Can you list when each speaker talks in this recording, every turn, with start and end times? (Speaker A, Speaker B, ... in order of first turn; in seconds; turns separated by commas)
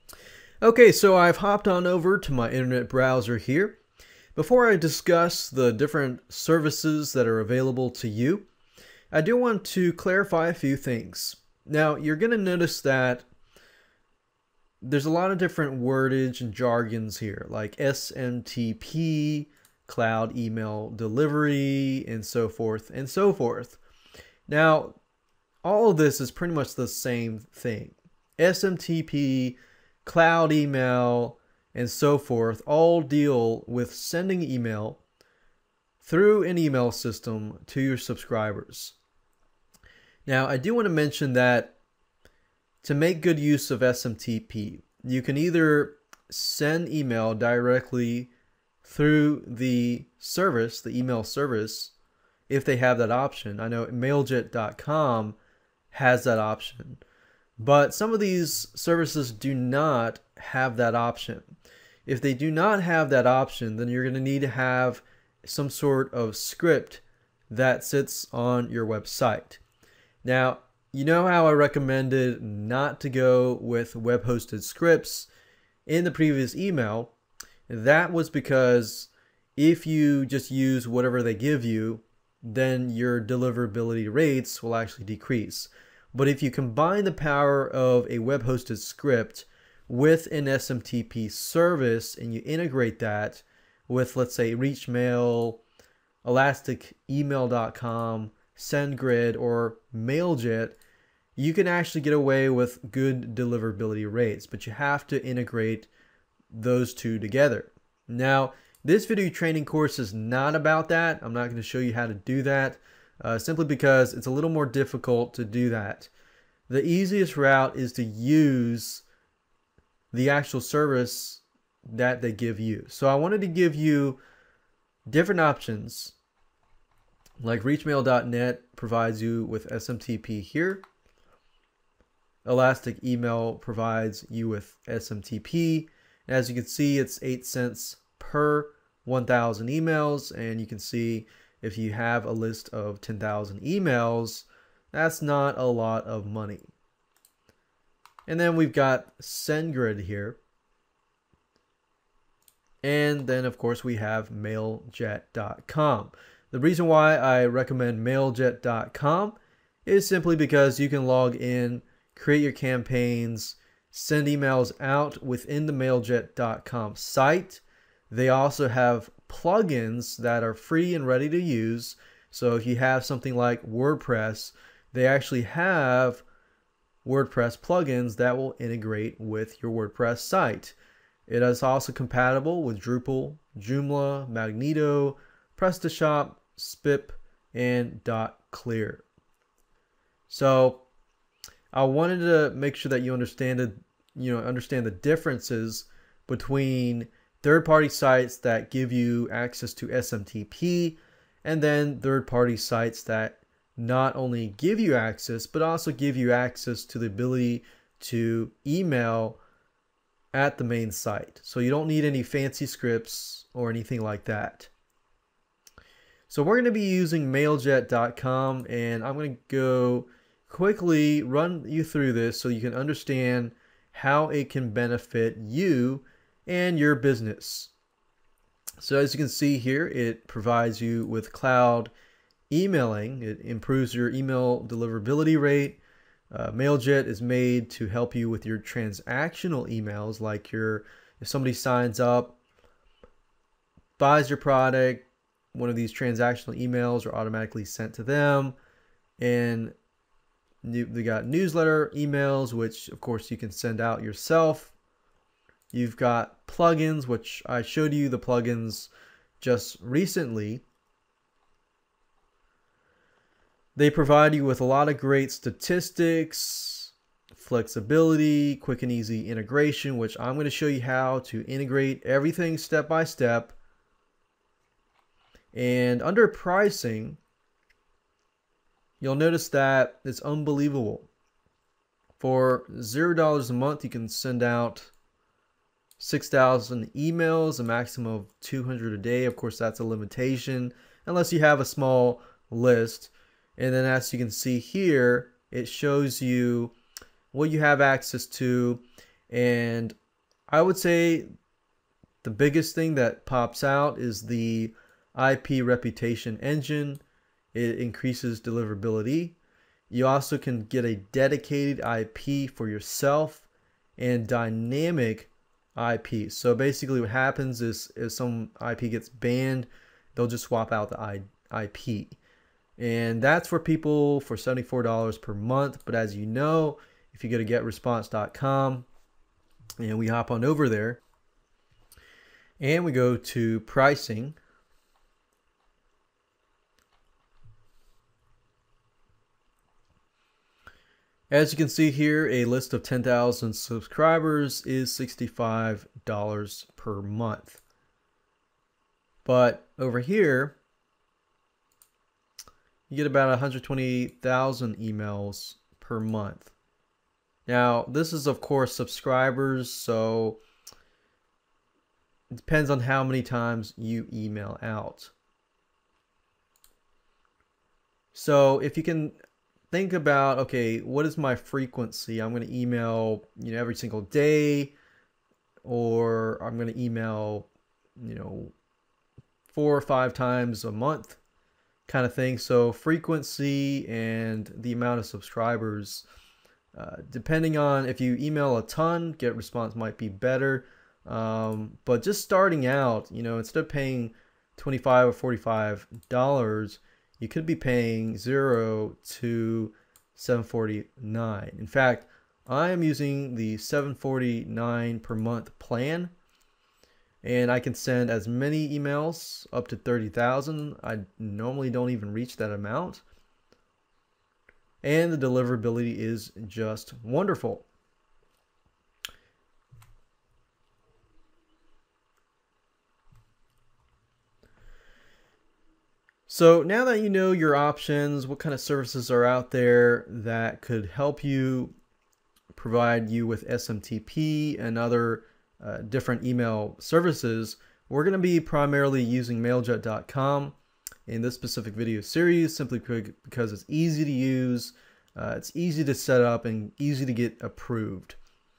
Speaker A: 0.6-3.8, Speaker A: 4.4-8.5, Speaker A: 9.1-13.3, Speaker A: 14.8-23.8, Speaker A: 24.5-25.0, Speaker A: 25.6-35.0, Speaker A: 36.0-39.0, Speaker A: 40.3-41.8, Speaker A: 42.8-48.3, Speaker A: 48.8-51.9, Speaker A: 52.5-55.4, Speaker A: 55.9-57.0, Speaker A: 57.6-61.5, Speaker A: 62.1-69.6, Speaker A: 70.2-75.3, Speaker A: 75.9-77.1, Speaker A: 77.7-95.6, Speaker A: 96.2-100.8, Speaker A: 101.4-105.9, Speaker A: 106.5-116.1, Speaker A: 116.7-119.0, Speaker A: 120.1-124.2, Speaker A: 125.1-126.2, Speaker A: 127.4-130.8, Speaker A: 132.4-146.7, Speaker A: 148.3-150.4, Speaker A: 152.8-176.2, Speaker A: 177.0-180.8, Speaker A: 181.3-189.1, Speaker A: 190.3-190.9, Speaker A: 191.7-209.4, Speaker A: 210.3-214.7, Speaker A: 216.3-227.7, Speaker A: 228.8-231.9, Speaker A: 232.5-242.4, Speaker A: 244.0-248.6, Speaker A: 249.2-249.8, Speaker A: 250.6-254.7, Speaker A: 255.7-260.6, Speaker A: 263.8-273.6, Speaker A: 275.5-277.2, Speaker A: 279.0-281.1, Speaker A: 282.2-284.9, Speaker A: 286.0-296.7, Speaker A: 297.3-300.0, Speaker A: 300.5-301.3, Speaker A: 302.2-307.0, Speaker A: 307.5-309.4, Speaker A: 309.9-322.2, Speaker A: 322.8-328.9, Speaker A: 329.8-331.0, Speaker A: 332.6-334.4, Speaker A: 341.3-347.6, Speaker A: 349.2-350.6, Speaker A: 352.9-356.5, Speaker A: 357.5-360.4, Speaker A: 362.3-365.1, Speaker A: 368.1-369.2, Speaker A: 369.7-374.7, Speaker A: 375.6-378.6, Speaker A: 379.5-381.2, Speaker A: 381.9-386.1, Speaker A: 386.8-406.1, Speaker A: 407.2-413.0, Speaker A: 414.8-417.7, Speaker A: 426.3-431.8, Speaker A: 432.5-440.6, Speaker A: 441.1-448.2